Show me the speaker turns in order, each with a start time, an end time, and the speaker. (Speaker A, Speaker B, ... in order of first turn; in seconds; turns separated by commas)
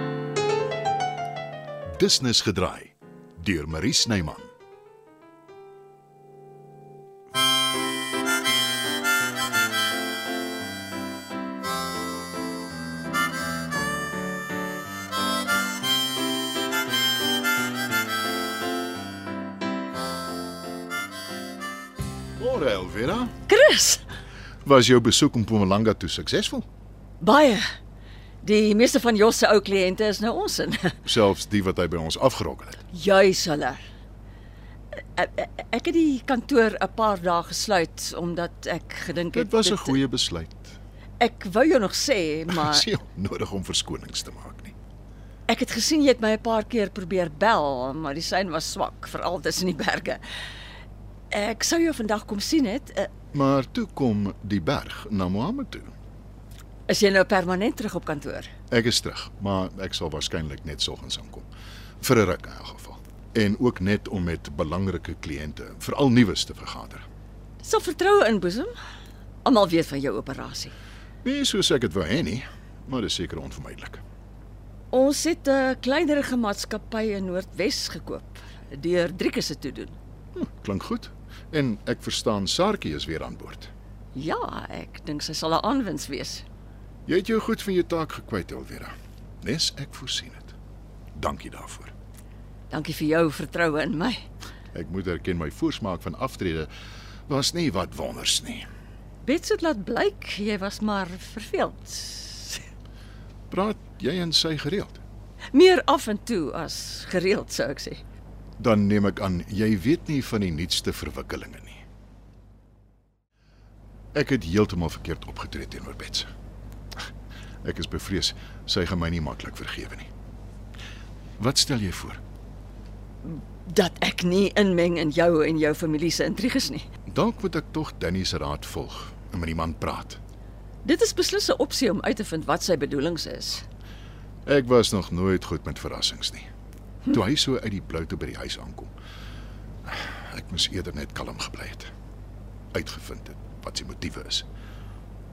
Speaker A: 2.0-4.5, Speaker A: 22.4-23.4, Speaker B: 23.5-24.1, Speaker A: 24.6-26.7, Speaker B: 27.2-27.7, Speaker B: 28.4-31.0, Speaker A: 31.1-32.8, Speaker B: 32.9-33.8, Speaker B: 34.9-40.0, Speaker A: 39.3-40.8, Speaker B: 41.2-42.9, Speaker A: 42.5-44.8, Speaker B: 45.5-50.2, Speaker B: 51.3-53.1, Speaker A: 53.3-55.9, Speaker B: 56.9-58.5, Speaker A: 58.7-61.5, Speaker A: 62.0-67.1, Speaker B: 67.6-68.8, Speaker B: 69.4-70.8, Speaker A: 71.2-74.0, Speaker B: 74.9-80.0, Speaker A: 80.3-83.7, Speaker B: 84.2-86.5, Speaker A: 87.1-90.5, Speaker A: 91.1-91.9, Speaker B: 92.7-94.3, Speaker A: 94.7-96.7, Speaker A: 97.3-98.7, Speaker B: 99.2-102.7, Speaker A: 103.5-105.0, Speaker B: 105.5-108.0, Speaker A: 108.6-111.8, Speaker A: 114.1-116.3, Speaker A: 117.6-120.1, Speaker A: 121.4-122.2, Speaker B: 123.2-126.9, Speaker A: 127.1-130.2, Speaker B: 130.8-133.7, Speaker A: 134.5-136.5, Speaker A: 137.1-138.9, Speaker A: 139.9-141.9, Speaker A: 142.7-144.5